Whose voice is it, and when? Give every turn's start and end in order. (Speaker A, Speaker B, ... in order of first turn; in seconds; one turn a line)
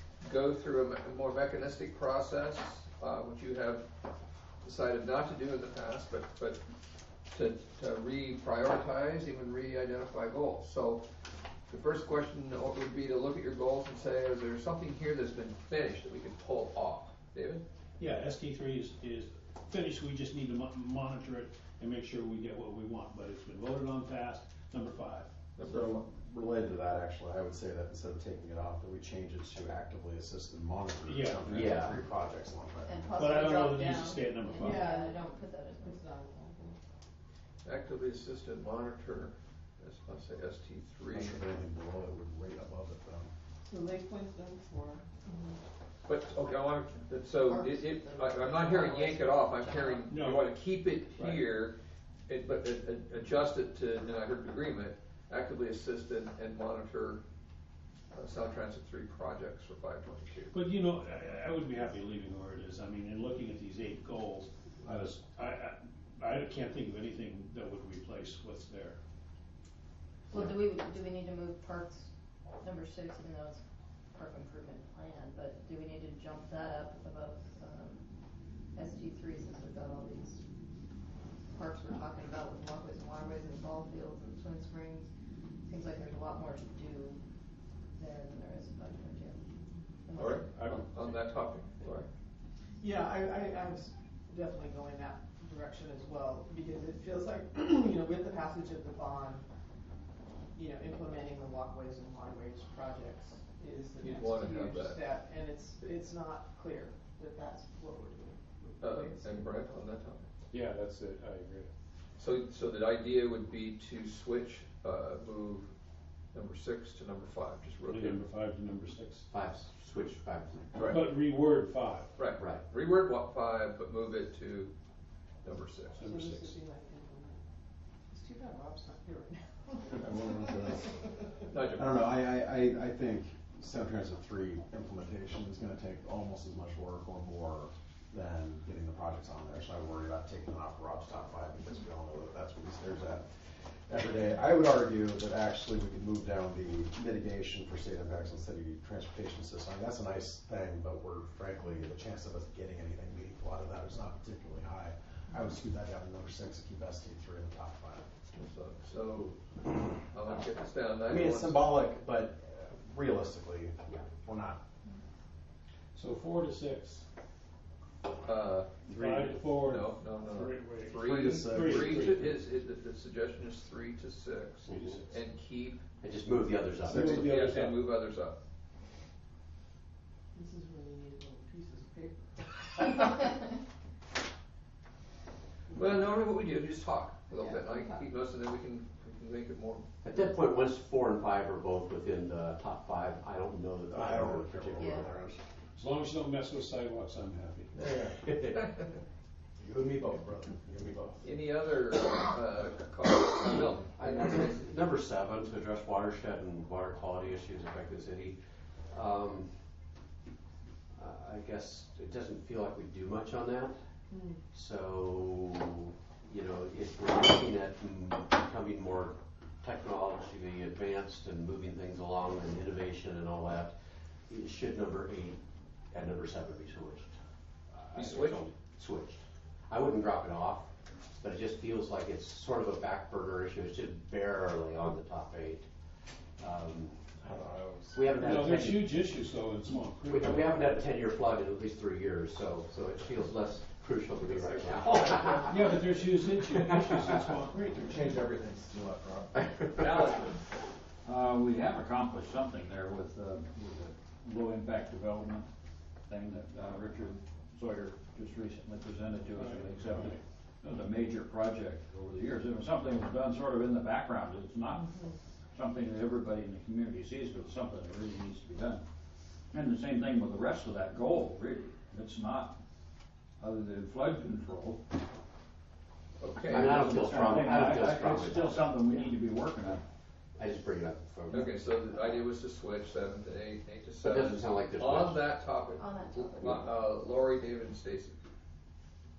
Speaker A: 0.2-3.9
Speaker A: 4.6-6.6
Speaker A: 7.3-11.1
Speaker A: 11.7-17.6
Speaker B: 18.0-25.3
Speaker A: 25.6-26.0
Speaker C: 25.6-33.3
Speaker B: 31.1-31.8
Speaker D: 31.5-32.0
Speaker E: 32.8-36.1
Speaker B: 33.1-34.9
Speaker F: 34.6-36.8
Speaker A: 37.6-41.4
Speaker C: 41.1-43.3
Speaker F: 43.6-45.6
Speaker A: 46.1-51.8
Speaker E: 47.5-50.0
Speaker B: 50.1-50.6
Speaker B: 51.2-51.5
Speaker A: 52.3-57.2
Speaker A: 58.1-60.5
Speaker B: 60.5-69.0
Speaker E: 70.3-73.6
Speaker E: 74.1-78.1
Speaker E: 78.8-80.4
Speaker E: 81.5-85.1
Speaker E: 85.7-87.2
Speaker E: 88.0-89.4
Speaker E: 90.0-90.4
Speaker A: 90.2-92.1
Speaker B: 90.4-90.9
Speaker F: 92.8-99.4
Speaker F: 100.5-109.7
Speaker A: 104.0-105.0
Speaker A: 108.8-110.3
Speaker B: 110.5-111.7
Speaker A: 112.2-115.7
Speaker A: 116.3-118.2
Speaker B: 117.8-119.3
Speaker D: 119.3-120.9
Speaker A: 120.8-121.1
Speaker B: 120.9-122.2
Speaker A: 122.2-124.7
Speaker A: 125.4-126.1
Speaker B: 126.0-126.7
Speaker F: 126.1-127.4
Speaker F: 128.1-131.1
Speaker C: 129.9-130.9
Speaker A: 131.5-132.0
Speaker C: 131.8-143.3
Speaker C: 143.9-158.1
Speaker A: 158.3-159.4
Speaker A: 159.9-161.7
Speaker C: 161.1-164.6
Speaker B: 165.9-167.1
Speaker A: 168.2-168.7
Speaker B: 168.9-172.3
Speaker A: 169.6-175.8
Speaker C: 170.9-172.2
Speaker D: 174.7-175.0
Speaker B: 174.7-175.2
Speaker D: 176.0-177.2
Speaker B: 176.9-177.9
Speaker A: 176.9-178.4
Speaker F: 180.3-183.0
Speaker F: 185.7-186.1
Speaker A: 185.8-189.9
Speaker F: 187.3-188.1
Speaker D: 190.0-195.3
Speaker C: 193.9-195.4
Speaker E: 194.8-195.1
Speaker B: 195.8-197.8
Speaker C: 197.8-198.2
Speaker D: 198.0-198.7
Speaker C: 199.6-201.3
Speaker A: 201.2-204.6
Speaker D: 203.9-208.4
Speaker D: 208.9-209.5
Speaker D: 211.0-213.8
Speaker F: 214.1-214.4
Speaker D: 214.5-223.7
Speaker D: 224.3-227.1
Speaker D: 227.7-235.7
Speaker A: 227.9-228.5
Speaker D: 236.4-237.0
Speaker C: 237.2-238.2
Speaker D: 237.9-239.1
Speaker B: 238.2-240.8
Speaker D: 240.0-247.0
Speaker A: 244.3-245.4
Speaker B: 245.5-247.9
Speaker C: 247.5-249.4
Speaker G: 249.8-250.3
Speaker G: 251.0-255.5
Speaker G: 256.1-264.9
Speaker B: 259.4-260.2
Speaker G: 265.5-268.8
Speaker G: 269.5-272.6
Speaker G: 273.4-274.8
Speaker A: 276.2-276.9
Speaker D: 276.5-278.7
Speaker G: 276.5-279.8
Speaker D: 280.4-281.6
Speaker A: 281.3-288.2
Speaker D: 284.0-285.3
Speaker E: 285.8-286.7